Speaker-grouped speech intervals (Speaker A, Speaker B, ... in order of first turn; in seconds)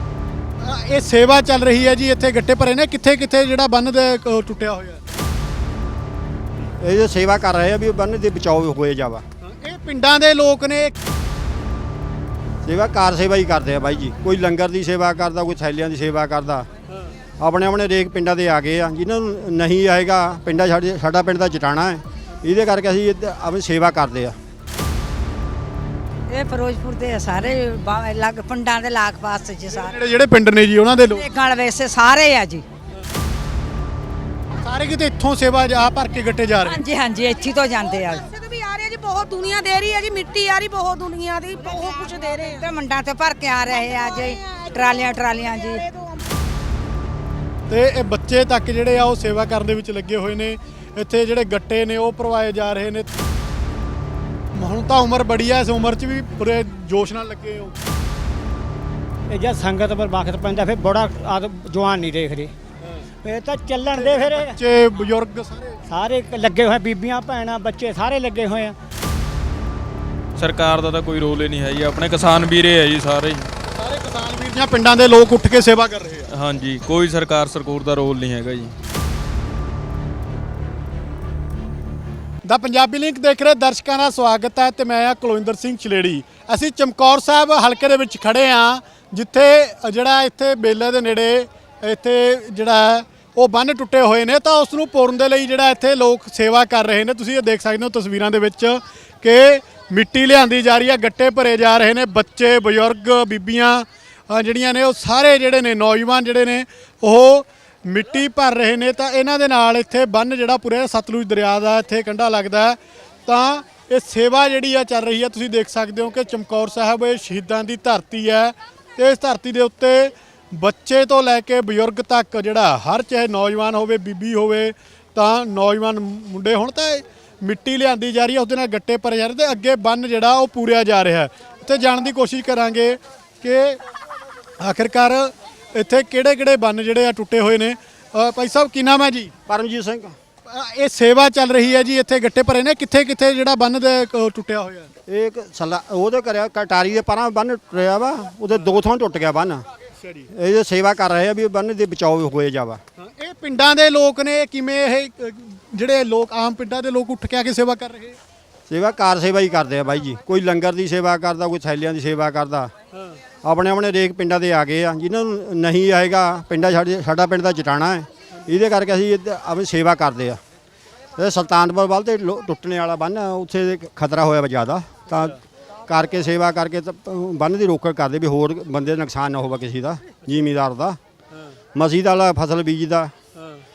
Speaker A: 0.6-5.0, 9.4-11.0, 29.7-31.3, 34.6-36.8, 47.7-53.1, 54.5-57.8, 63.9-65.8, 73.6-76.3, 82.5-133.8, 134.6-139.3, 140.5-144.9, 150.0-150.3, 153.0-158.2, 183.4-183.6
Speaker B: 6.8-9.2, 12.7-16.7, 17.4-24.4, 139.5-140.2, 145.1-149.7, 150.3-152.8, 158.7-162.7, 163.4-170.4, 171.2-181.0, 181.8-183.1
Speaker C: 26.3-29.9, 31.1-32.6, 36.6-38.3, 42.2-45.8
Speaker D: 37.9-42.6, 43.8-46.3
Speaker E: 59.3-62.5, 63.2-64.6, 65.9-68.8
Speaker F: 70.4-73.5, 76.3-78.8